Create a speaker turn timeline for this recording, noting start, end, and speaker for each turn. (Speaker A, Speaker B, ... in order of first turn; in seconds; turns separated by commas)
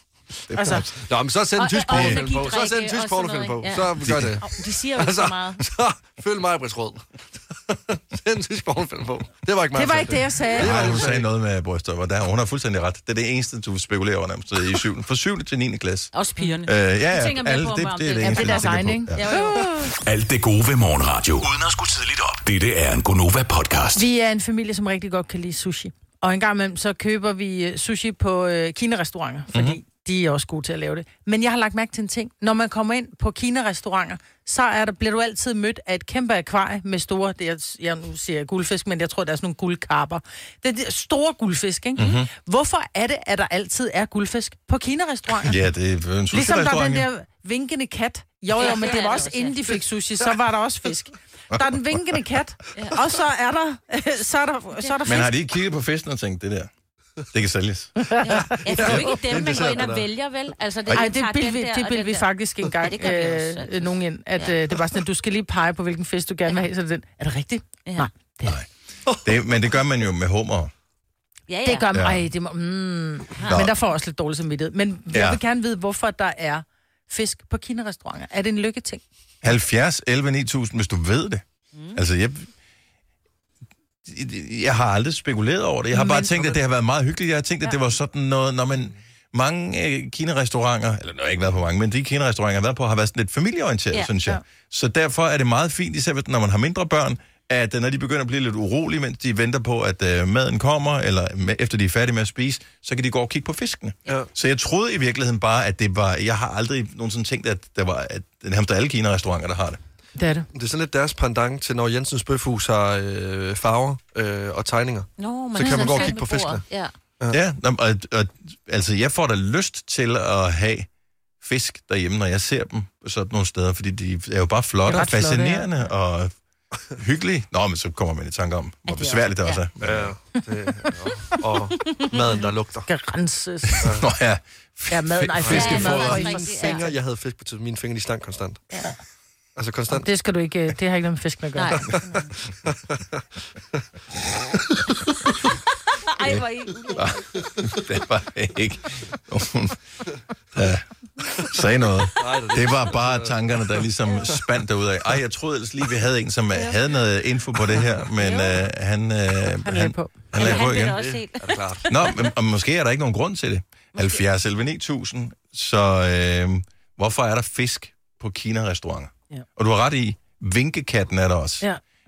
Speaker A: 0.4-1.1, Speaker B: 0.5-0.8, Speaker C: 1.0-11.3, Speaker D: 1.6-5.6, Speaker A: 1.9-2.2, Speaker A: 4.0-4.3, Speaker B: 9.7-10.9, Speaker A: 10.6-16.1, Speaker D: 16.1-19.7, Speaker A: 16.6-19.3, Speaker B: 18.2-19.9, Speaker E: 20.0-24.0, Speaker B: 23.9-45.6, Speaker A: 29.5-29.8, Speaker A: 42.0-42.3, Speaker A: 45.4-47.1, Speaker B: 46.3-55.3, Speaker D: 48.5-49.5, Speaker A: 55.0-56.7, Speaker A: 57.3-58.2, Speaker B: 58.0-58.6, Speaker D: 58.2-64.6, Speaker C: 58.6-60.1, Speaker B: 60.9-68.5, Speaker A: 69.2-70.7, Speaker D: 71.5-71.9, Speaker B: 71.6-79.0, Speaker A: 71.9-72.2, Speaker A: 73.5-73.7, Speaker A: 75.1-75.4, Speaker A: 79.4-82.5, Speaker A: 84.0-109.8, Speaker B: 85.9-86.5, Speaker B: 110.2-110.5, Speaker C: 110.5-116.6, Speaker D: 115.2-116.9, Speaker B: 115.6-116.1, Speaker A: 117.3-120.9, Speaker A: 121.4-126.3, Speaker B: 124.9-125.7, Speaker A: 126.9-130.1, Speaker D: 128.9-129.6, Speaker C: 129.8-132.9, Speaker B: 132.8-133.8, Speaker A: 133.8-136.2, Speaker B: 134.9-136.9, Speaker C: 135.4-138.6, Speaker D: 135.4-136.8, Speaker C: 139.6-140.1, Speaker B: 139.9-141.9, Speaker D: 141.6-142.3, Speaker C: 142.6-143.2, Speaker D: 146.0-147.3, Speaker A: 146.9-149.8, Speaker A: 150.5-161.0, Speaker C: 152.2-154.4, Speaker B: 159.6-160.3, Speaker D: 160.3-162.1, Speaker C: 160.3-162.0, Speaker A: 161.9-171.7, Speaker D: 163.9-164.2